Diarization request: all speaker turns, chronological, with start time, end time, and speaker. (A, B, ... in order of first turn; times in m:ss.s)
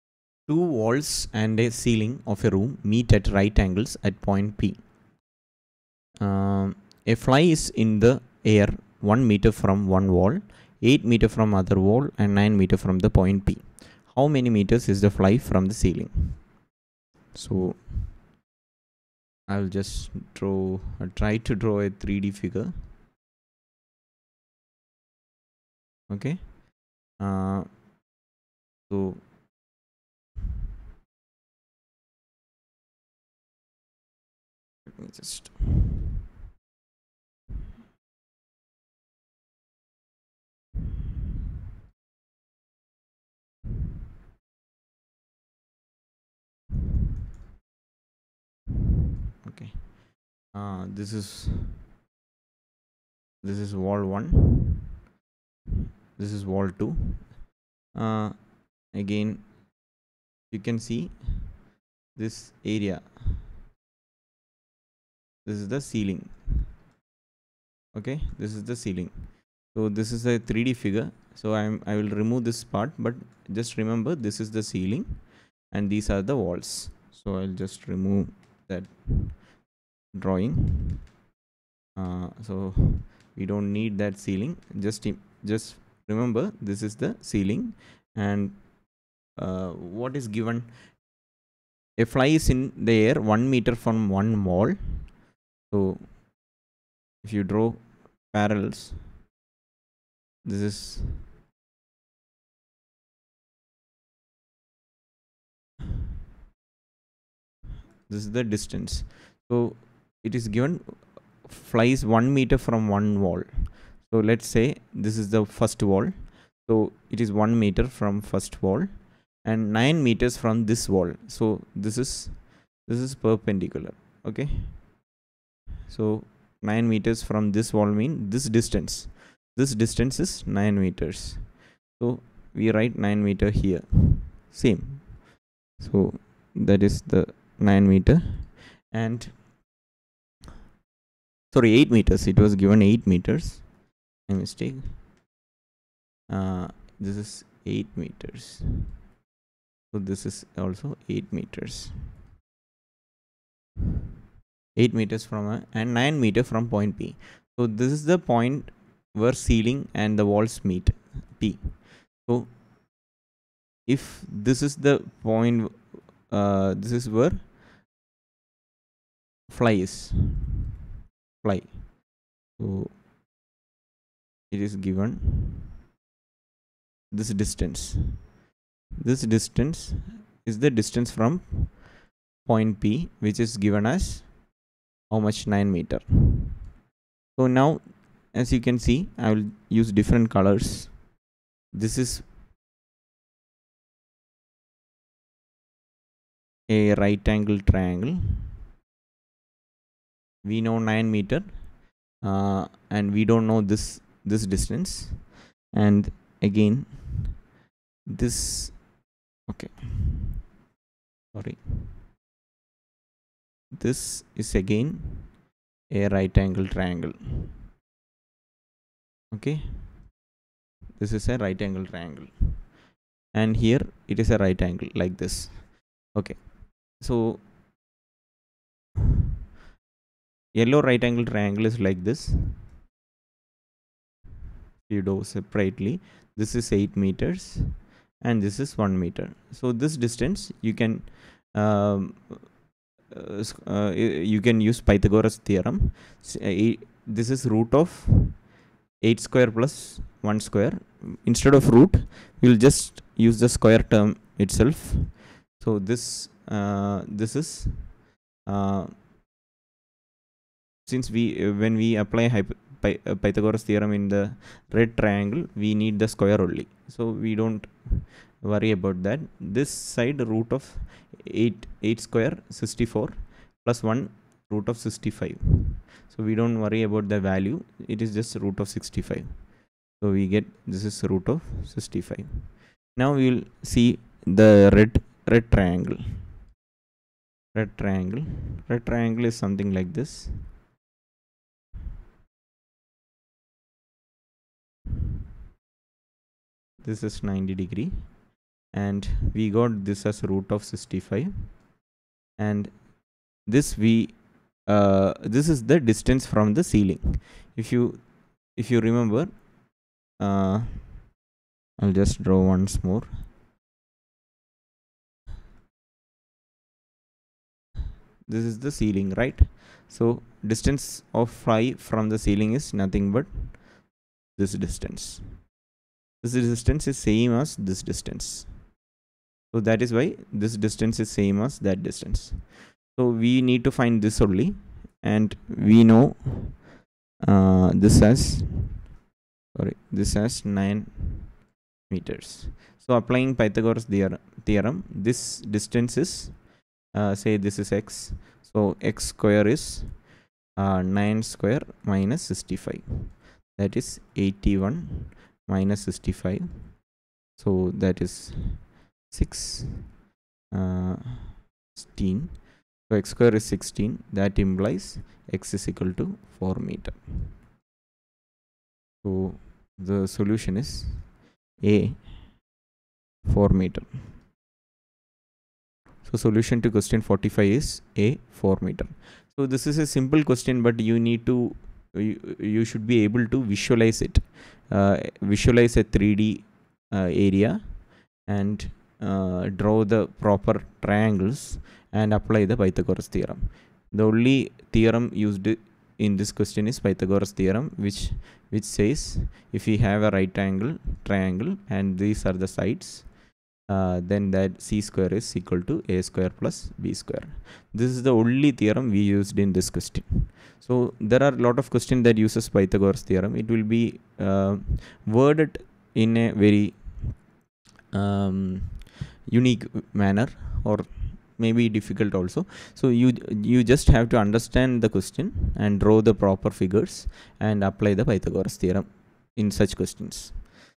0:00.5-0:04.9 A
0:06.2-0:16.5 A
0:17.3-0:18.1 A
0:19.5-0:22.8 A
0:26.1-0:27.8 A
0:28.9-0:29.3 A
0:34.9-0:35.8 A
0:49.4-0:51.8 A
0:53.4-0:54.8 A
0:56.2-0:57.4 A
0:57.9-0:59.9 A
1:00.5-1:01.6 A
1:02.1-1:03.4 A
1:05.4-1:06.7 A
1:07.9-1:19.5 A
1:20.1-1:21.1 A
1:21.9-1:31.0 A
1:32.0-1:36.2 A
1:37.2-1:39.1 A
1:40.4-1:41.3 A
1:48.1-2:05.0 A
2:05.9-2:19.4 A
2:21.5-2:25.0 A
2:26.3-2:29.0 A
2:29.9-2:32.2 A
2:34.7-2:42.6 A
2:43.8-2:47.5 A
2:49.5-2:50.5 A
2:51.4-2:53.0 A
2:54.5-2:55.6 A
2:57.1-2:58.3 A
2:59.0-3:01.9 A
3:02.4-3:04.5 A
3:05.1-3:06.6 A
3:07.3-3:11.1 A
3:11.7-3:12.3 A
3:16.7-3:18.5 A
3:20.4-3:27.4 A
3:28.0-3:30.4 A
3:31.3-3:32.0 A
3:33.7-3:37.6 A
3:39.3-3:40.2 A
3:41.0-3:42.8 A
3:43.3-3:47.5 A
3:50.5-3:52.7 A
3:54.8-4:19.0 A
4:20.8-4:46.3 A
4:47.5-4:50.5 A
4:56.8-5:01.7 A
5:02.4-5:11.1 A
5:11.8-5:13.2 A
5:18.2-5:23.8 A
5:24.3-5:25.5 A
5:26.2-5:28.7 A
5:29.5-5:36.7 A
5:37.2-5:38.9 A
5:39.5-5:59.9 A
6:00.5-6:07.4 A
6:09.0-6:12.2 A
6:13.2-6:14.1 A
6:16.0-6:57.3 A
6:57.9-7:10.5 A